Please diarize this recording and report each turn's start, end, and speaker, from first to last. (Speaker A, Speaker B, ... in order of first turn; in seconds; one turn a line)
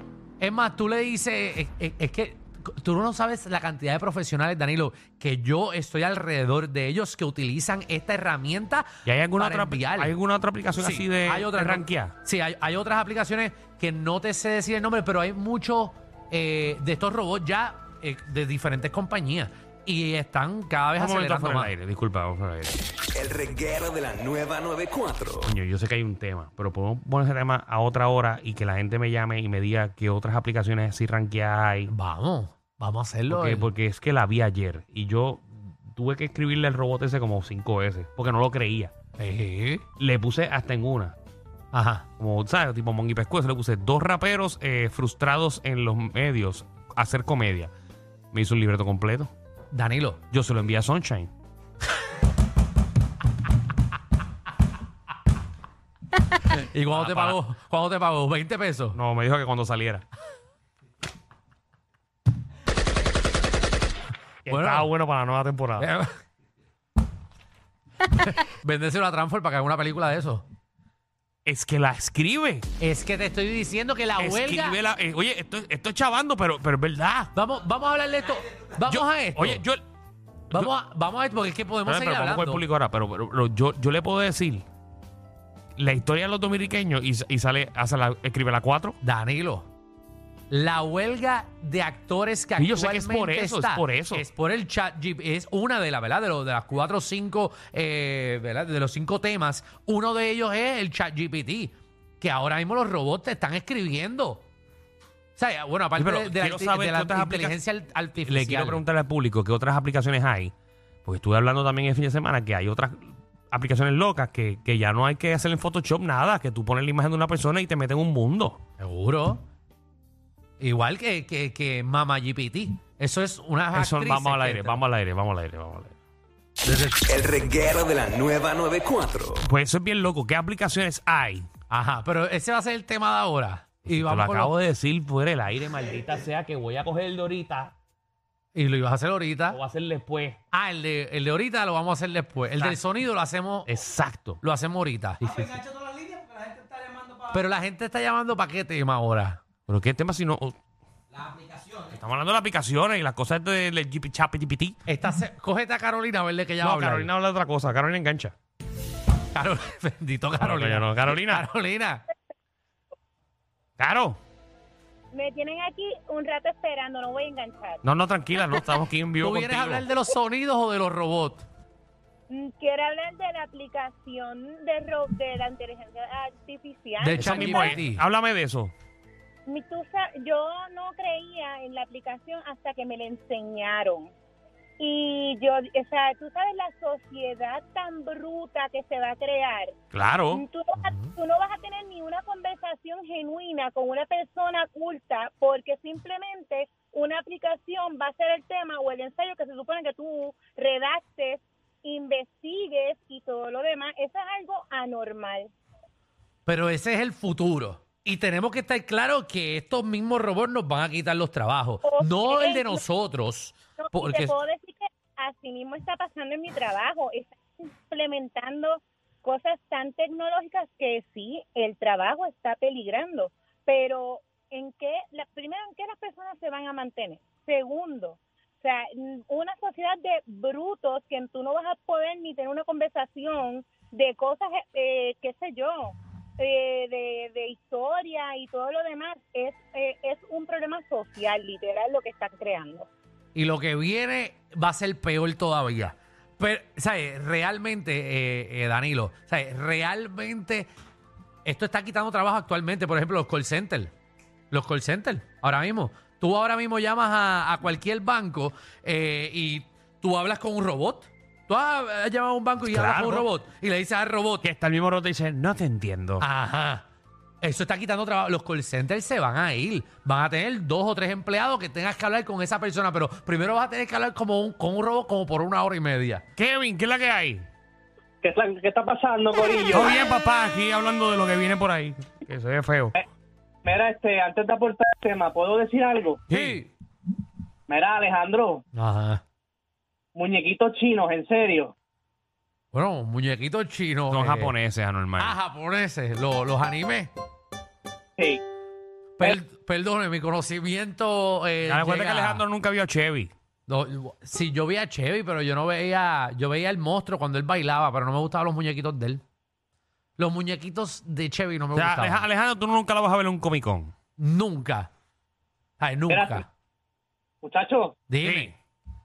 Speaker A: 0.4-10.1
Speaker B: 9.1-12.2
Speaker A: 10.8-21.7
Speaker B: 20.9-22.8
Speaker C: 23.1-25.5
Speaker B: 25.4-31.9
Speaker A: 31.9-33.7
Speaker B: 33.3-38.9
Speaker A: 39.2-39.8
Speaker B: 40.0-41.1
Speaker A: 41.7-42.0
Speaker B: 42.2-47.7
Speaker B: 48.3-49.3
Speaker A: 49.7-50.2
Speaker B: 50.3-51.3
Speaker A: 56.5-59.0
Speaker B: 56.9-57.4
Speaker B: 58.9-60.0
Speaker B: 64.4-65.9
Speaker A: 64.5-64.9
Speaker A: 65.8-66.2
Speaker A: 68.2-70.4
Speaker B: 71.4-72.6
Speaker A: 72.8-74.8
Speaker B: 74.2-77.3
Speaker A: 77.3-79.6
Speaker B: 78.8-79.8
Speaker A: 80.5-82.6
Speaker B: 81.8-84.6
Speaker B: 85.8-89.0
Speaker A: 89.0-89.7
Speaker A: 90.5-104.4
Speaker B: 92.6-94.2
Speaker A: 105.4-108.8
Speaker B: 106.0-107.6
Speaker B: 108.2-110.5
Speaker B: 111.0-118.6
Speaker A: 118.8-119.4
Speaker A: 120.6-124.8
Speaker B: 123.7-125.9
Speaker A: 126.6-127.0
Speaker C: 127.1-129.4
Speaker B: 129.4-131.5
Speaker A: 131.7-134.5
Speaker B: 133.8-137.7
Speaker A: 138.5-139.6
Speaker B: 139.5-140.4
Speaker A: 140.5-143.7
Speaker B: 143.7-144.4
Speaker A: 144.4-145.6
Speaker A: 147.3-149.4
Speaker B: 149.7-150.5
Speaker B: 151.7-154.8
Speaker A: 154.9-157.1
Speaker B: 156.6-158.3
Speaker A: 159.3-162.0
Speaker B: 160.4-161.4
Speaker B: 163.8-164.2
Speaker D: 165.1-167.8
Speaker B: 167.8-169.9
Speaker A: 169.2-171.4
Speaker D: 172.3-177.8
Speaker A: 177.0-178.0
Speaker B: 177.2-178.7
Speaker D: 179.4-184.1
Speaker D: 184.8-189.8
Speaker B: 189.9-190.4
Speaker D: 190.3-205.5
Speaker A: 190.8-191.1
Speaker A: 206.4-214.3
Speaker D: 211.8-212.8
Speaker D: 213.8-242.9
Speaker A: 243.3-250.7
Speaker A: 251.4-253.9
Speaker A: 254.5-264.5
Speaker B: 262.6-263.3
Speaker B: 264.4-266.2
Speaker A: 266.2-266.8
Speaker A: 267.4-276.2
Speaker B: 276.4-277.5
Speaker E: 278.2-280.0
Speaker B: 279.7-283.0
Speaker E: 283.6-286.2
Speaker A: 286.3-286.7
Speaker B: 286.3-286.6
Speaker E: 287.7-288.6
Speaker A: 288.7-289.2
Speaker E: 290.1-291.7
Speaker A: 292.7-294.5
Speaker B: 294.1-295.4
Speaker A: 295.2-297.1
Speaker A: 299.2-302.4
Speaker B: 301.6-303.3
Speaker A: 303.7-309.2
Speaker A: 310.2-312.2
Speaker B: 311.7-313.9
Speaker A: 314.2-314.9
Speaker A: 315.8-316.5
Speaker E: 316.1-316.4
Speaker E: 317.4-318.0
Speaker A: 318.1-318.5
Speaker B: 318.2-318.5